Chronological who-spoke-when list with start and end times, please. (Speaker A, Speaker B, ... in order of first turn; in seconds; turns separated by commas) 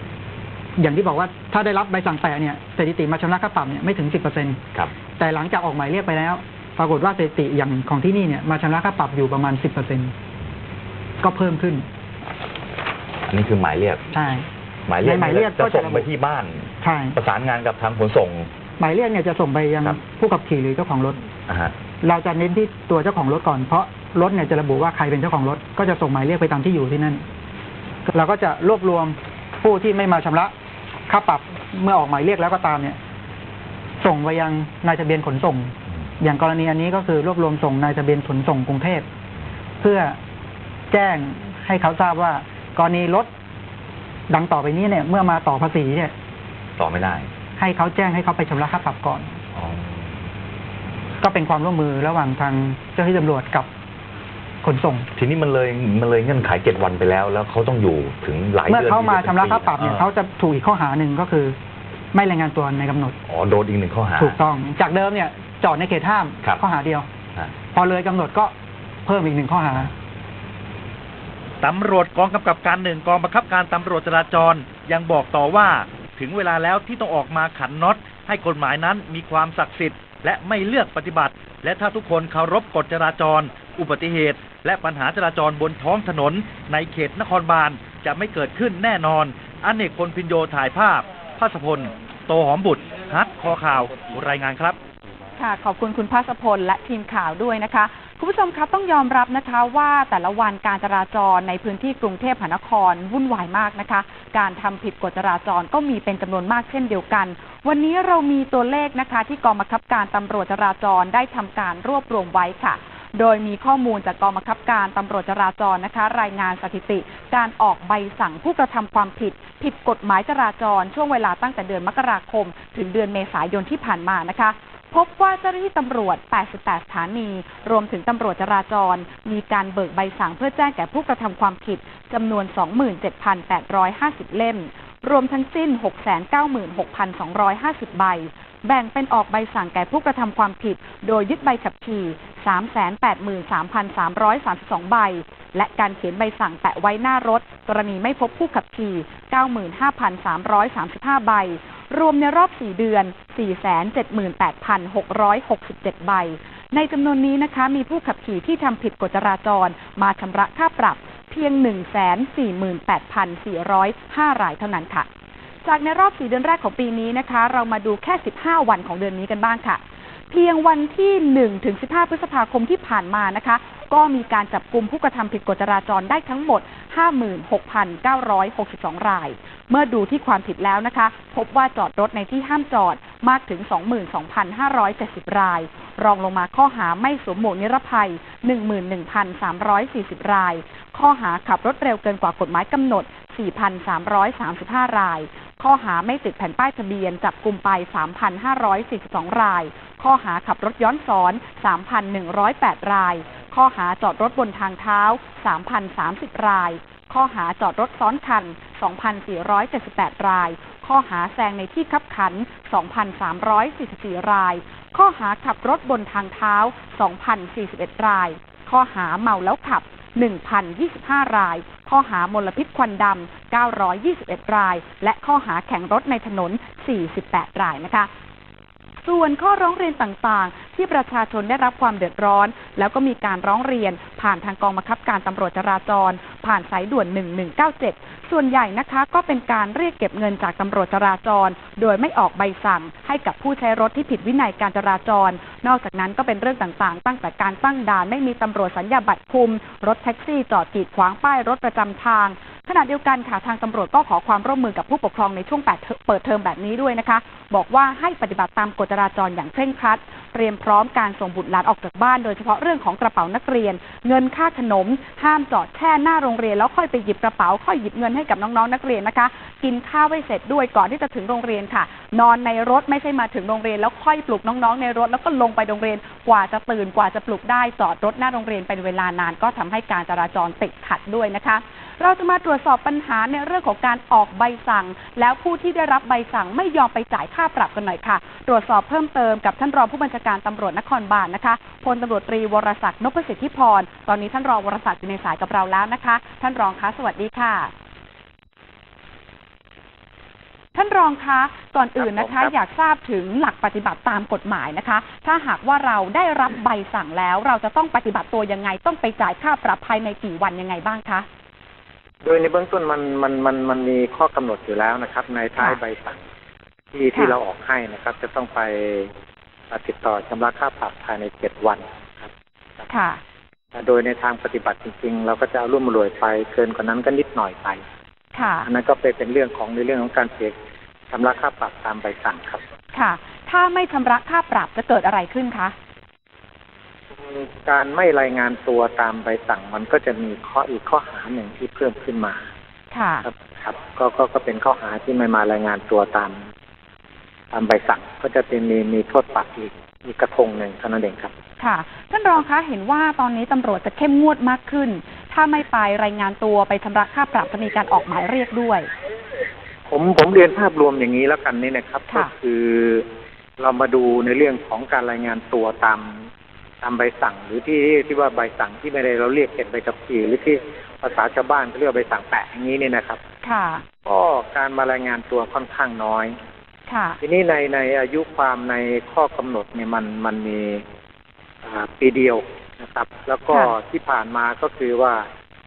Speaker A: 0.8-4.6, Speaker A: 5.2-10.1, Speaker A: 11.2-11.8, Speaker B: 13.3-14.1, Speaker A: 14.1-14.5, Speaker B: 14.9-18.5, Speaker A: 15.0-16.1, Speaker A: 16.8-17.2, Speaker A: 18.8-21.3, Speaker B: 21.5-21.8, Speaker A: 22.0-27.2, Speaker A: 28.1-30.5, Speaker A: 31.1-33.0, Speaker A: 34.0-39.1, Speaker A: 39.8-40.2, Speaker A: 40.9-43.3, Speaker A: 44.3-46.1, Speaker B: 46.8-47.3, Speaker A: 47.6-49.3, Speaker B: 49.5-50.2, Speaker A: 51.2-53.7, Speaker A: 54.6-55.1, Speaker B: 55.1-60.1, Speaker A: 58.6-61.6, Speaker A: 62.1-63.1, Speaker B: 63.3-64.4, Speaker A: 64.1-67.1, Speaker A: 67.7-68.5, Speaker A: 69.1-69.9, Speaker C: 71.6-94.8, Speaker D: 95.4-165.1, Speaker D: 165.6-228.1, Speaker D: 229.0-297.7, Speaker D: 300.8-311.3, Speaker E: 302.0-302.5, Speaker E: 312.2-316.2, Speaker E: 316.9-319.1, Speaker E: 319.7-322.3, Speaker D: 322.9-323.2, Speaker E: 323.7-327.8, Speaker D: 328.3-328.7, Speaker E: 328.6-330.6, Speaker E: 331.1-332.6, Speaker D: 332.9-335.7, Speaker E: 337.1-342.5, Speaker D: 342.9-343.3, Speaker E: 343.2-346.4, Speaker E: 347.5-351.3, Speaker D: 351.6-358.9, Speaker E: 359.9-363.1, Speaker E: 363.6-366.2, Speaker E: 366.8-373.2, Speaker D: 373.4-373.8, Speaker E: 374.1-376.4, Speaker D: 376.9-377.2, Speaker E: 377.2-380.8, Speaker E: 381.6-385.3